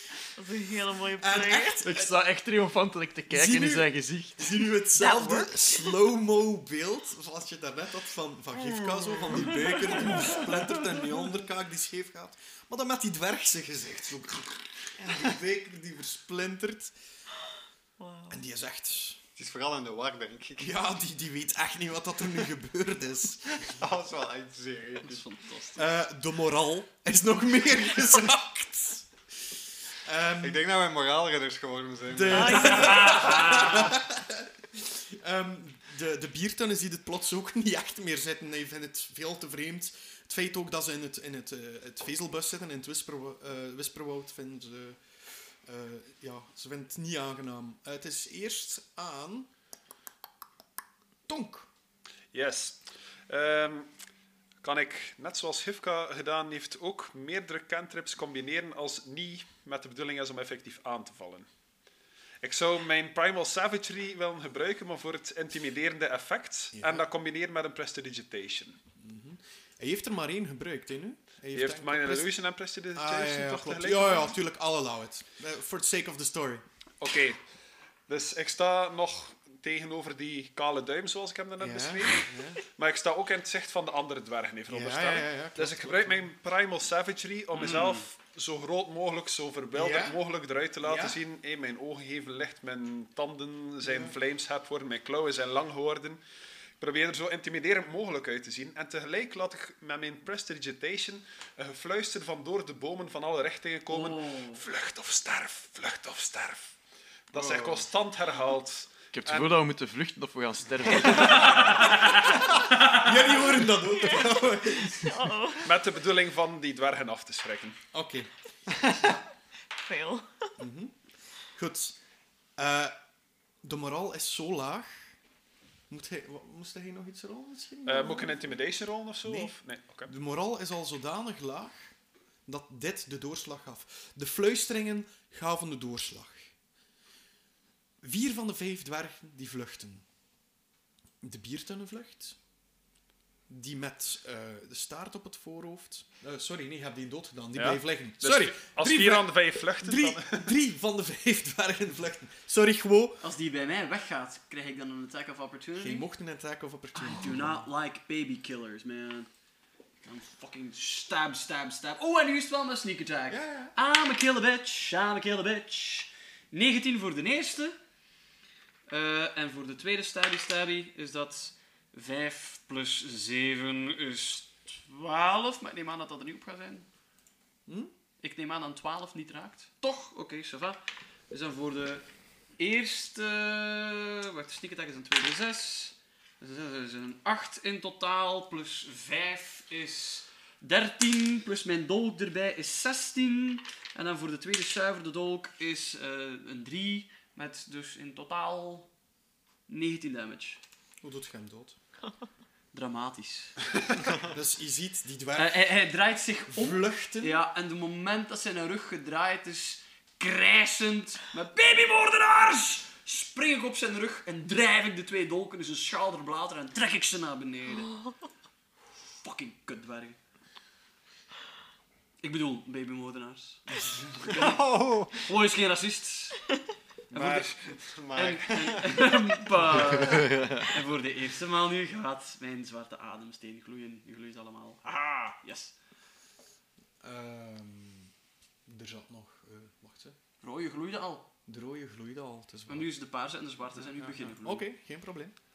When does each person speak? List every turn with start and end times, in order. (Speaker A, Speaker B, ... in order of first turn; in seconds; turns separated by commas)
Speaker A: 0.3-1.8, Speaker B: 1.2-2.1, Speaker C: 1.8-5.4, Speaker B: 3.3-16.9, Speaker A: 9.9-10.2, Speaker A: 18.0-18.4, Speaker B: 18.3-19.2, Speaker D: 19.4-20.7, Speaker B: 20.6-23.8, Speaker D: 23.7-25.2, Speaker E: 25.0-25.9, Speaker B: 25.8-29.1, Speaker B: 30.0-30.6, Speaker D: 30.4-33.0, Speaker B: 32.1-49.5, Speaker A: 32.3-33.1, Speaker E: 32.5-33.9, Speaker B: 51.3-51.7, Speaker F: 52.3-53.9, Speaker F: 54.6-61.5, Speaker F: 62.4-68.8, Speaker B: 66.7-67.0, Speaker B: 69.0-72.3, Speaker F: 71.5-74.4, Speaker B: 72.9-76.6, Speaker F: 77.0-77.4, Speaker F: 78.1-96.2, Speaker B: 81.6-82.6, Speaker B: 84.7-86.3, Speaker E: 87.5-88.0, Speaker B: 89.7-90.2, Speaker B: 90.8-91.2, Speaker B: 93.8-94.2, Speaker F: 96.8-106.7, Speaker E: 103.9-104.6, Speaker F: 107.3-109.5, Speaker D: 107.3-107.8, Speaker C: 109.1-111.8, Speaker F: 111.1-111.6, Speaker B: 112.8-115.3, Speaker A: 113.9-115.7, Speaker F: 115.6-117.8, Speaker B: 117.9-118.3, Speaker A: 119.8-120.5, Speaker B: 120.6-121.0, Speaker B: 121.5-122.0, Speaker B: 122.6-123.0, Speaker B: 123.6-125.2, Speaker B: 125.9-128.6, Speaker F: 127.8-130.1, Speaker B: 129.2-129.5, Speaker B: 130.1-131.9, Speaker B: 132.4-136.5, Speaker B: 138.0-140.0, Speaker B: 141.2-142.4, Speaker B: 143.5-153.2, Speaker F: 147.5-150.5, Speaker E: 153.2-156.1, Speaker B: 155.8-157.7, Speaker E: 156.9-159.3, Speaker E: 160.0-167.8, Speaker B: 163.3-163.7, Speaker E: 168.9-176.9, Speaker B: 177.7-177.9, Speaker E: 178.2-182.1, Speaker E: 182.6-198.9, Speaker E: 199.7-200.6, Speaker B: 201.0-201.8, Speaker E: 202.7-203.6, Speaker B: 204.2-205.7, Speaker E: 205.3-217.9, Speaker B: 206.5-207.4, Speaker E: 219.2-220.2, Speaker E: 222.2-226.4, Speaker D: 224.2-225.2, Speaker E: 227.1-235.7, Speaker D: 227.1-229.2, Speaker C: 230.0-230.7, Speaker B: 237.0-238.1, Speaker B: 238.7-240.2, Speaker E: 240.4-241.3, Speaker B: 241.5-242.9, Speaker E: 242.7-244.7, Speaker B: 243.8-245.3